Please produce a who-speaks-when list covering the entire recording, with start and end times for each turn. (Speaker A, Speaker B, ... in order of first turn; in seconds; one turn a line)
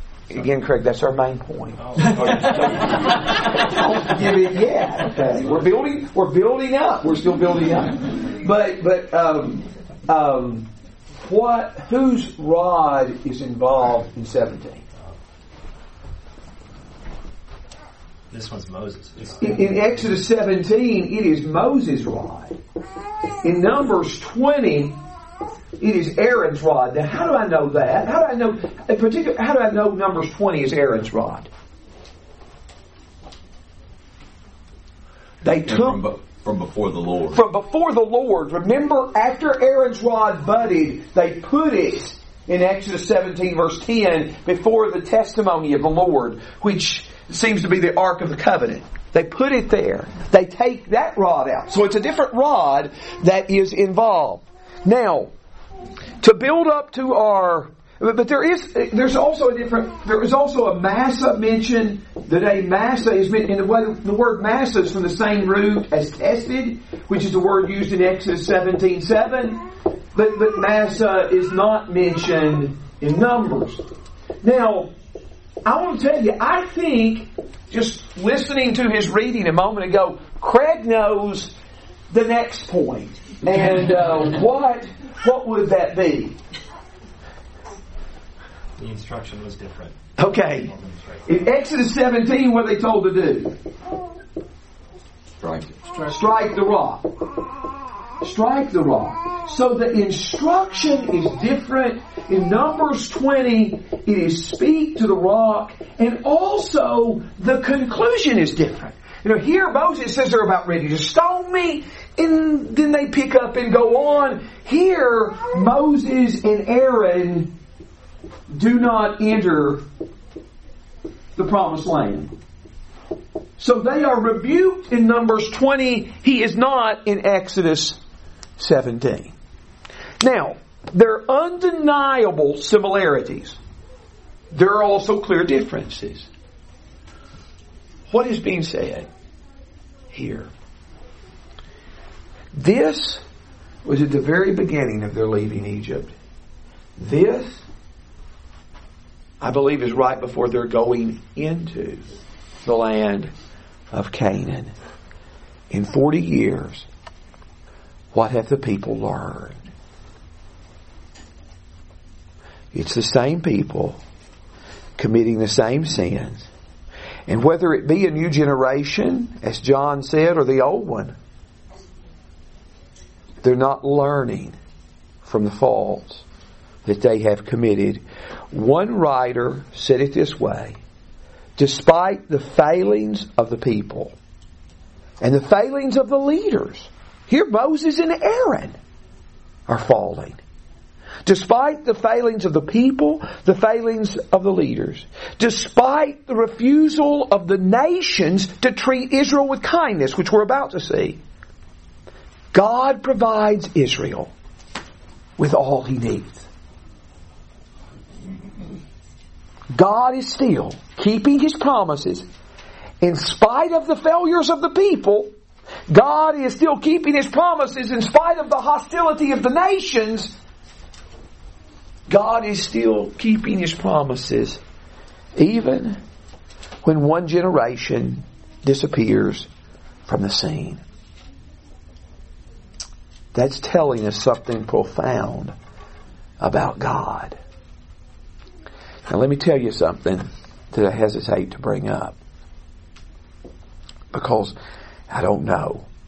Speaker A: 0.3-10.7
Speaker B: 1.8-3.7
Speaker A: 11.2-14.8
Speaker B: 18.3-20.2
Speaker A: 19.4-22.6
Speaker A: 23.4-25.0
Speaker A: 25.8-31.5
Speaker A: 35.4-36.0
Speaker C: 35.6-37.4
Speaker A: 37.3-55.3
Speaker A: 56.2-69.6
Speaker A: 70.1-73.8
Speaker A: 74.4-74.9
Speaker A: 75.7-81.5
Speaker A: 82.1-86.4
Speaker B: 88.8-91.4
Speaker A: 90.2-90.7
Speaker A: 91.3-93.5
Speaker C: 95.4-95.8
Speaker A: 96.1-97.1
Speaker A: 98.2-117.5
Speaker A: 118.5-119.8
Speaker A: 121.4-122.3
Speaker A: 123.6-128.0
Speaker A: 128.6-129.3
Speaker A: 130.2-133.6
Speaker A: 134.5-136.3
Speaker A: 138.1-139.1
Speaker A: 140.1-140.5
Speaker A: 142.5-143.2
Speaker A: 143.8-146.1
Speaker A: 147.0-147.6
Speaker A: 149.4-152.0
Speaker A: 152.6-153.3
Speaker A: 153.9-154.7
Speaker A: 155.7-156.9
Speaker A: 158.1-159.6
Speaker A: 162.7-164.0
Speaker A: 165.0-166.5
Speaker A: 167.3-171.1
Speaker A: 173.4-174.6
Speaker A: 175.2-176.2
Speaker A: 176.8-180.8
Speaker A: 181.6-184.1
Speaker A: 185.2-188.8
Speaker A: 189.7-190.4
Speaker A: 191.2-201.2
Speaker A: 202.5-204.3
Speaker A: 205.4-206.5
Speaker A: 209.7-212.2
Speaker A: 213.0-215.3
Speaker A: 215.9-220.3
Speaker A: 222.1-224.6
Speaker A: 225.4-226.0
Speaker A: 226.8-229.5
Speaker A: 230.1-230.8
Speaker A: 233.3-235.5
Speaker A: 236.4-237.4
Speaker A: 239.1-242.2
Speaker A: 244.1-244.6
Speaker A: 245.1-245.8